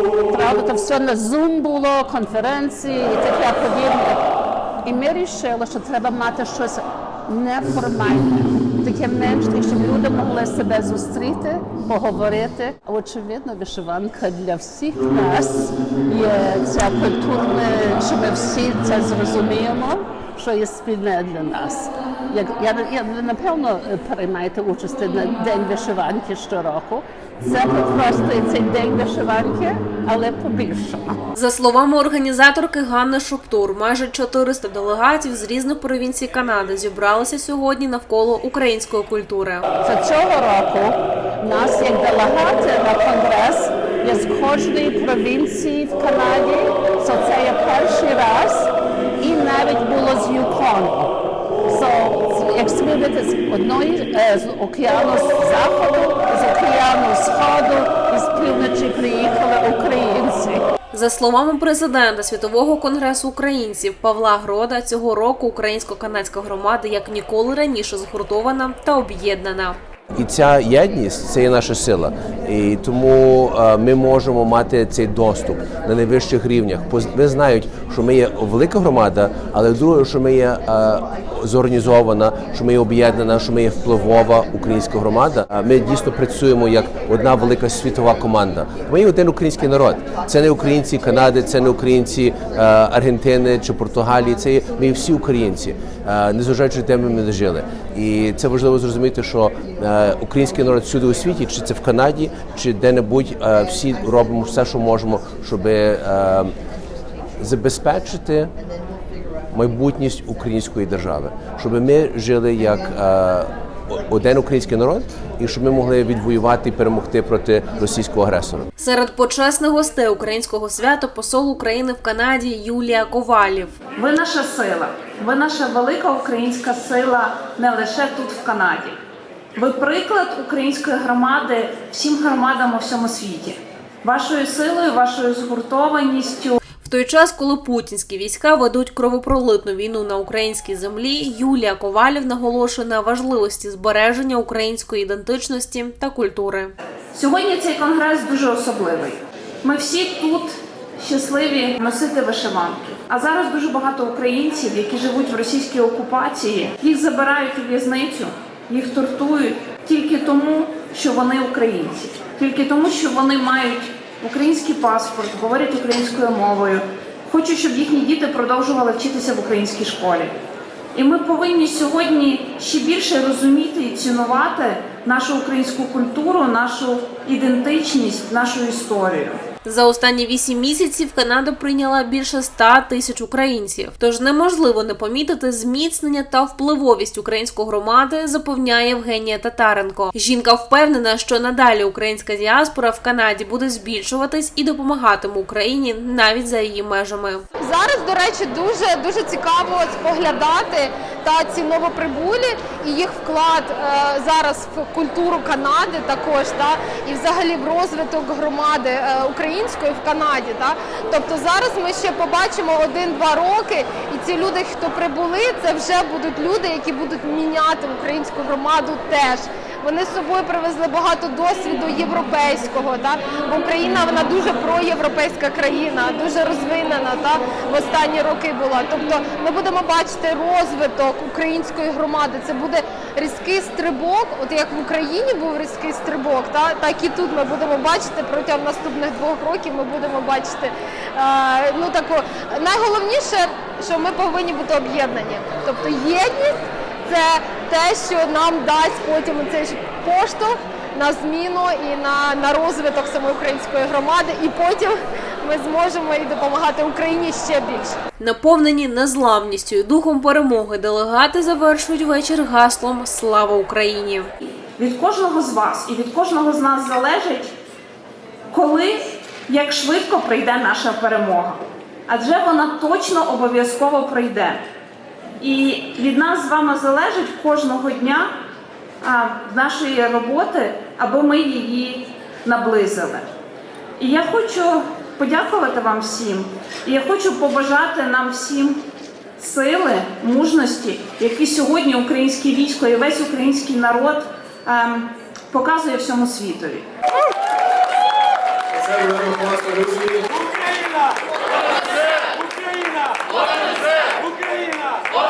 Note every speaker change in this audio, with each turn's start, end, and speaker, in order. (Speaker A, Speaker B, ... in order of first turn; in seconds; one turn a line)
Speaker A: 0.3-31.2
Speaker B: 31.3-39.7
Speaker A: 39.8-51.1
Speaker A: 51.7-60.7
Speaker B: 60.9-69.8
Speaker C: 70.1-106.5
Speaker C: 107.4-108.5
Speaker C: 109.5-118.7
Speaker B: 118.8-123.8
Speaker D: 124.0-129.0
Speaker D: 129.5-136.5
Speaker B: 136.8-146.7
Speaker D: 147.1-170.4
Speaker D: 170.9-179.4
Speaker B: 179.6-197.4
Speaker E: 197.6-258.0
Speaker B: 258.2-264.3
Speaker D: 264.8-267.5
Speaker D: 268.5-274.6
Speaker D: 275.4-278.3
Speaker D: 279.0-283.3
Speaker D: 284.0-288.8
Speaker D: 289.4-296.9